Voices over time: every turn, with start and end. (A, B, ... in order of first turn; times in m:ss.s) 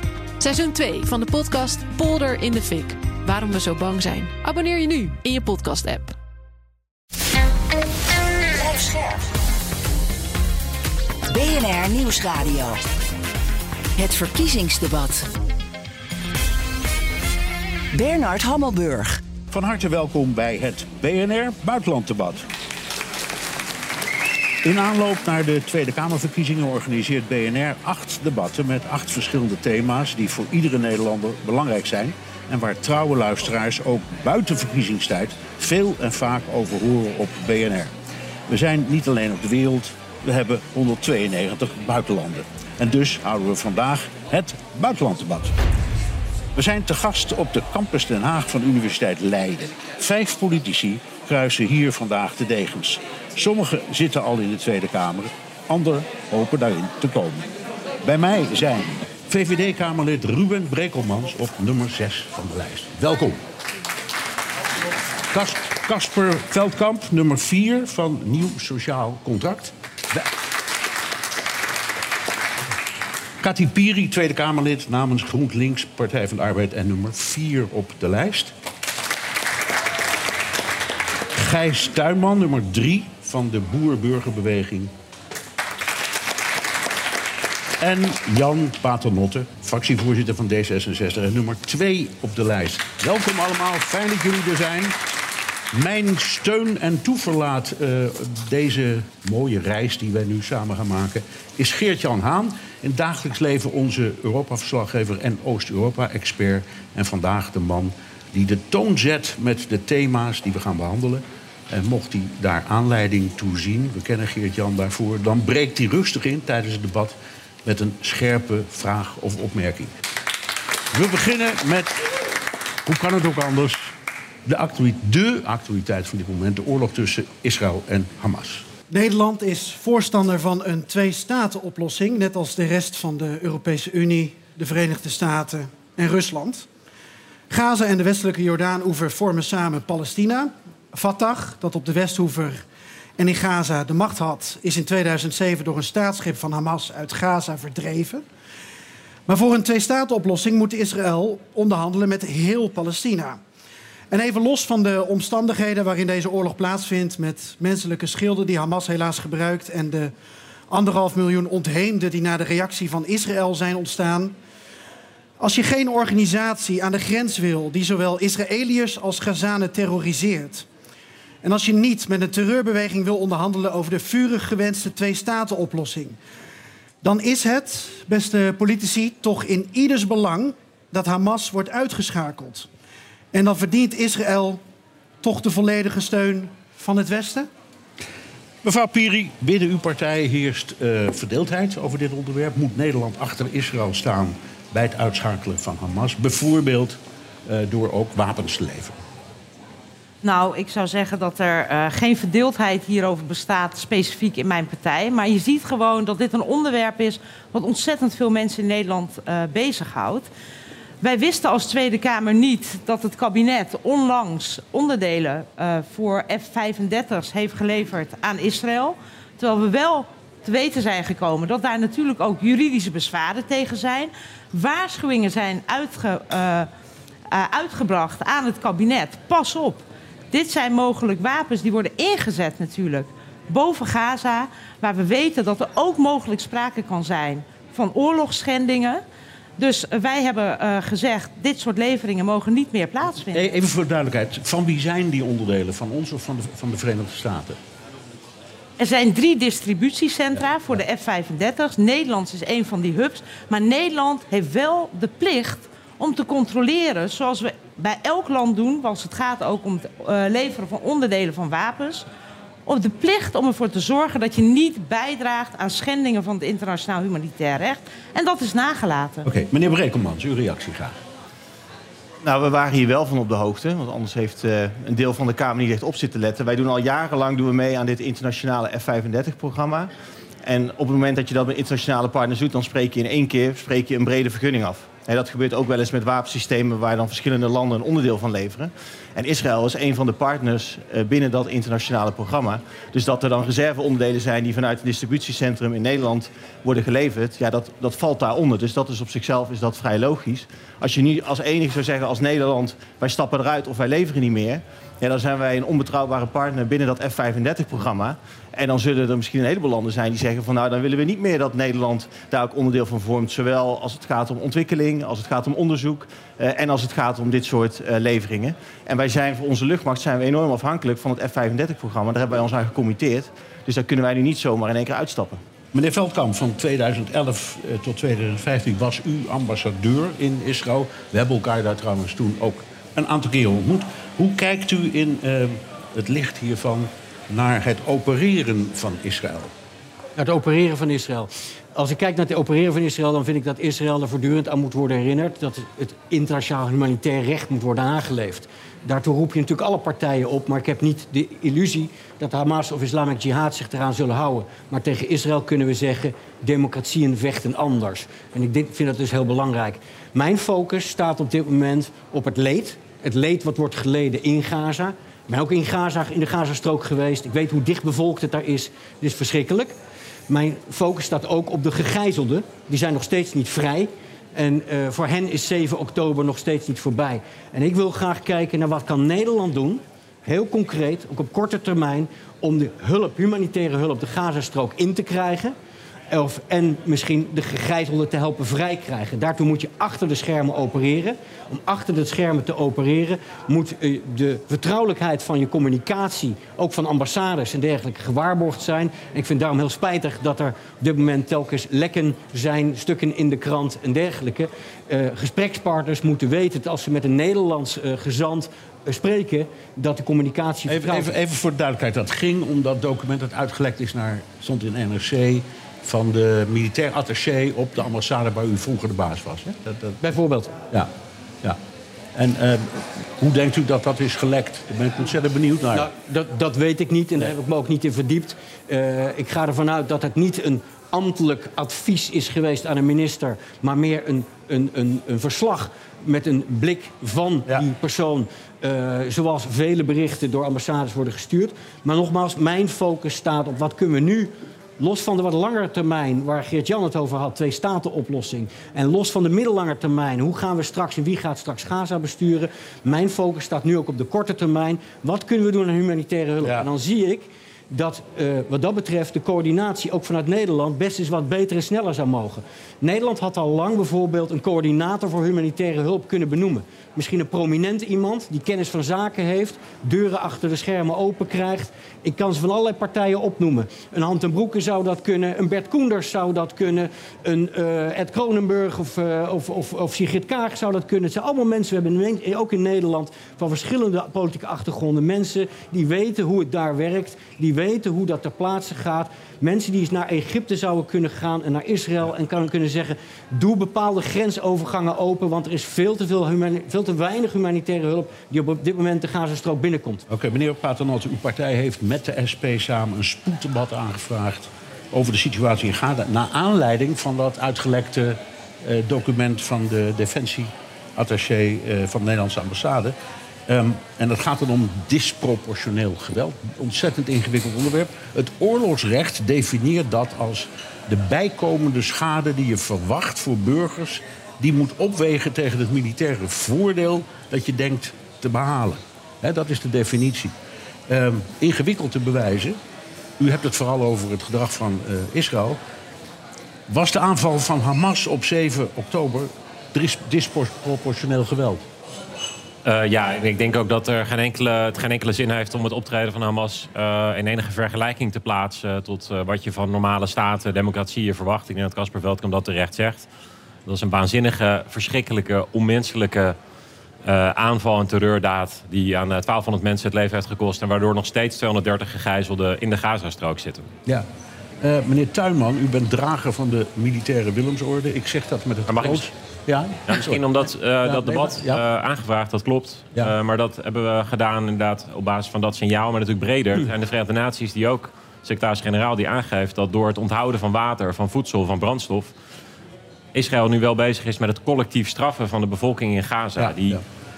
0:00.4-0:06.2 A
0:08.6-0:09.2 B
0:11.3-0:12.8 B
0:14.0-0:15.2 B
0:17.9-0:19.2 B
0:19.5-0:22.4 C
0:24.6-0:37.9 C
0:38.5-0:45.5 C
0:46.5-0:57.5 C
0:58.0-1:03.4 C
1:05.3-1:10.2 C
1:13.4-1:18.5 C
1:21.3-1:24.9 C
1:27.8-1:35.0 C
1:35.7-1:59.9 C
2:00.9-2:02.2 C
2:02.8-2:03.9 C
2:04.4-2:08.6 C
2:08.9-2:16.7 D
2:17.5-2:22.6 D
2:23.2-2:28.2 D
2:29.3-2:33.4 D
2:34.1-2:40.1 D
2:40.7-2:44.3 D
2:45.4-2:50.7 D
2:51.4-2:56.2 D
2:57.0-3:02.7 D
3:03.3-3:04.6 D
3:05.2-3:07.5 D
3:08.6-3:19.0 C
3:20.2-3:30.3 E
3:31.0-3:46.7 E
3:47.3-3:59.0 E
3:59.6-4:03.5 E
4:03.2-4:07.6 C
4:08.8-4:22.1 E
4:22.6-4:29.4 E
4:29.2-4:31.0 C
4:32.2-4:39.9 F
4:40.4-5:25.4 F
5:25.7-5:39.5 C
5:40.2-6:09.7 G
6:10.3-6:25.5 G
6:26.1-6:51.1 G
6:50.7-6:59.9 C
7:00.0-7:00.5 G
7:02.2-7:05.9 C
7:05.7-8:20.0 G
7:36.4-7:36.7 C
8:20.1-8:32.9 C
8:33.5-8:50.3 C
8:50.9-8:52.6 C
8:53.2-8:55.6 C
8:56.7-9:01.6 C
9:02.6-9:13.0 H
9:13.6-9:16.4 H
9:17.0-9:23.7 H
9:24.6-9:30.2 C
9:28.7-9:29.0 H
9:29.9-9:42.1 H
9:30.8-9:31.6 C
9:43.1-9:46.8 H
9:46.4-9:46.8 C